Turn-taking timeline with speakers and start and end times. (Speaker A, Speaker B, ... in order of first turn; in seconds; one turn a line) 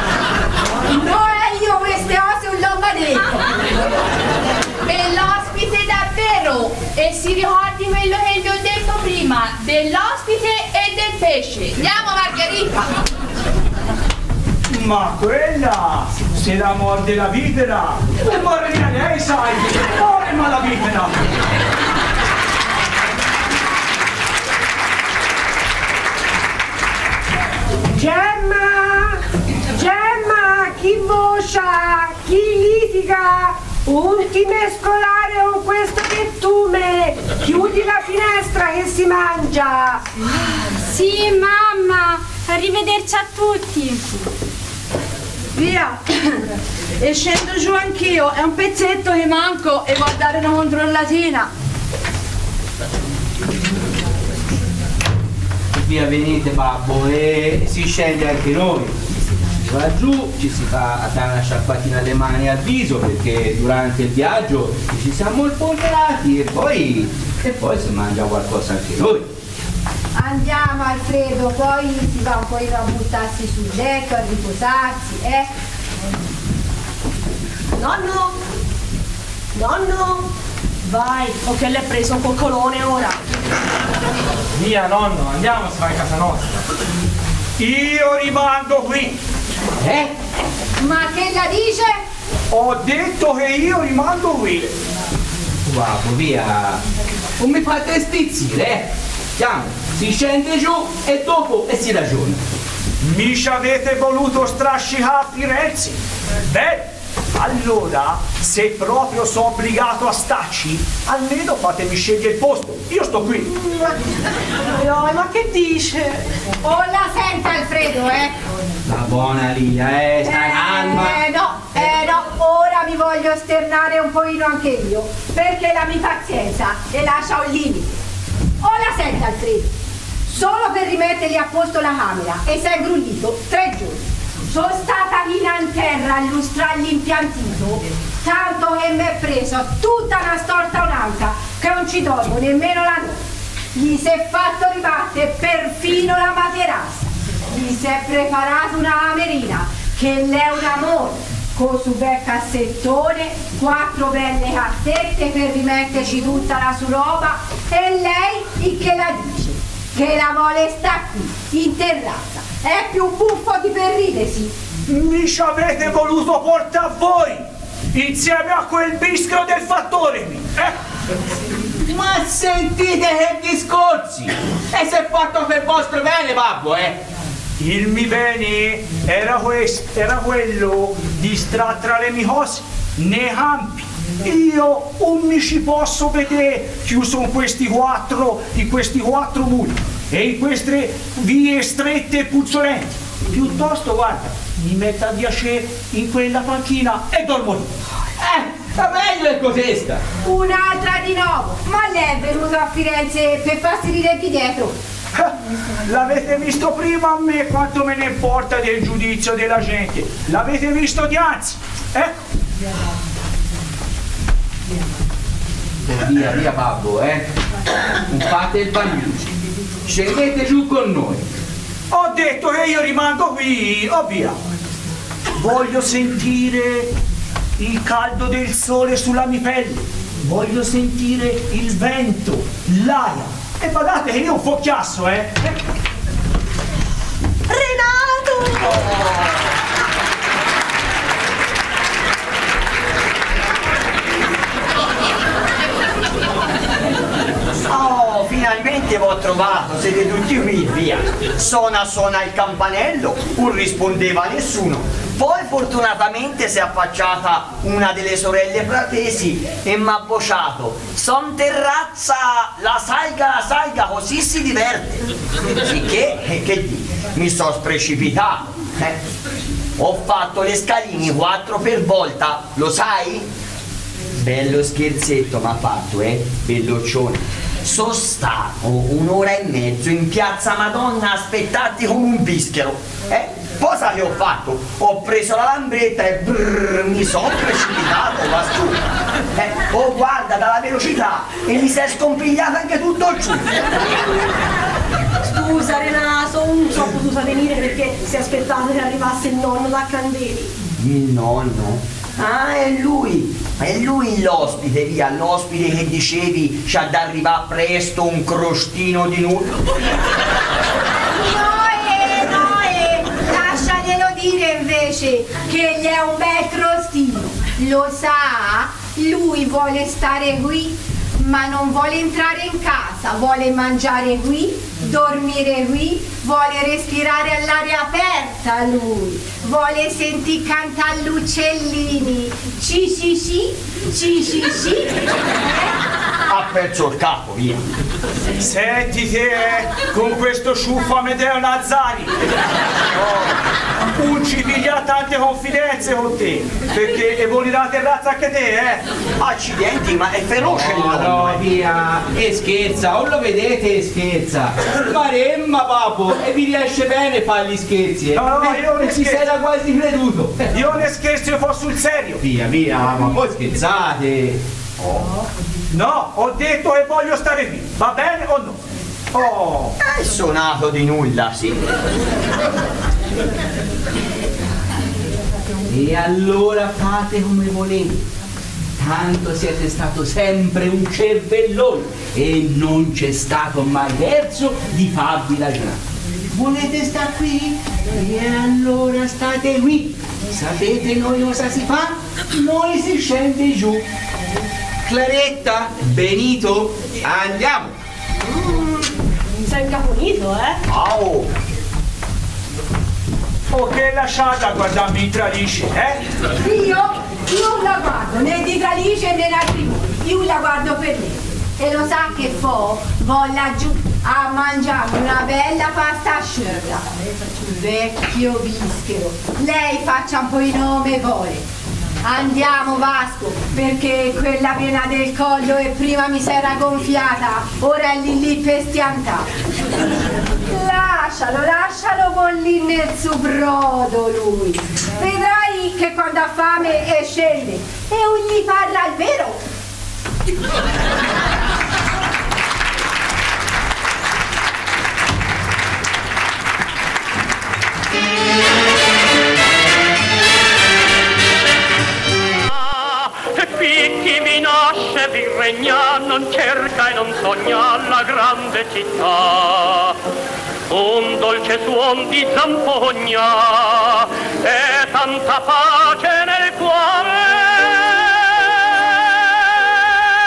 Speaker A: 0.9-3.4
Speaker B: 4.8-12.9
Speaker C: 14.7-21.4
Speaker D: 27.9-40.0
Speaker E: 40.8-44.3
Speaker F: 45.5-46.4
Speaker F: 47.0-51.5
Speaker G: 55.7-59.0
Speaker G: 59.6-69.3
Speaker A: 70.1-75.5
Speaker H: 77.8-78.3
Speaker H: 79.5-80.2
Speaker H: 80.8-83.2
Speaker I: 84.5-86.6
Speaker C: 87.6-89.2
Speaker G: 89.8-90.1
Speaker A: 90.8-92.0
Speaker C: 92.5-94.7
Speaker G: 95.6-96.8
Speaker G: 97.4-102.4
Speaker C: 103.0-113.5
Speaker H: 113.5-113.9
Speaker H: 114.6-116.3
Speaker A: 116.6-118.3
Speaker G: 118.8-121.2
Speaker A: 120.2-128.0
Speaker A: 128.6-129.7
Speaker A: 130.3-143.2
Speaker A: 143.7-164.5
Speaker C: 164.8-170.8
Speaker G: 171.8-177.0
Speaker C: 177.6-197.7
Speaker G: 198.2-200.0
Speaker A: 200.2-204.7
Speaker C: 205.8-212.2
Speaker G: 215.8-217.2
Speaker G: 218.1-219.2
Speaker G: 219.8-221.2
Speaker C: 221.9-224.4
Speaker C: 225.4-226.9
Speaker C: 227.6-235.5
Speaker H: 237.5-239.3
Speaker J: 247.7-269.0
Speaker J: 269.8-273.3
Speaker J: 274.1-288.8
Speaker J: 289.3-293.5
Speaker H: 295.2-300.5
Speaker J: 300.8-309.6
Speaker A: 311.1-335.7
Speaker J: 336.3-337.6
Speaker C: 338.4-342.1
Speaker C: 343.9-348.8
Speaker J: 349.2-351.4
Speaker G: 350.6-360.6
Speaker C: 358.1-359.3
Speaker C: 360.5-362.2
Speaker G: 362.2-364.4
Speaker J: 364.8-365.1
Speaker C: 365.7-368.6
Speaker C: 369.1-369.7
Speaker J: 369.8-371.7
Speaker G: 375.7-378.1
Speaker G: 378.8-385.8
Speaker G: 386.3-393.8
Speaker G: 394.8-397.7
Speaker H: 398.2-398.9
Speaker H: 399.4-400.6
Speaker J: 400.7-401.3
Speaker C: 403.5-406.0
Speaker A: 406.4-416.9
Speaker A: 417.4-421.4
Speaker A: 422.0-429.3
Speaker A: 430.4-439.4
Speaker K: 452.3-460.0
Speaker K: 460.7-469.6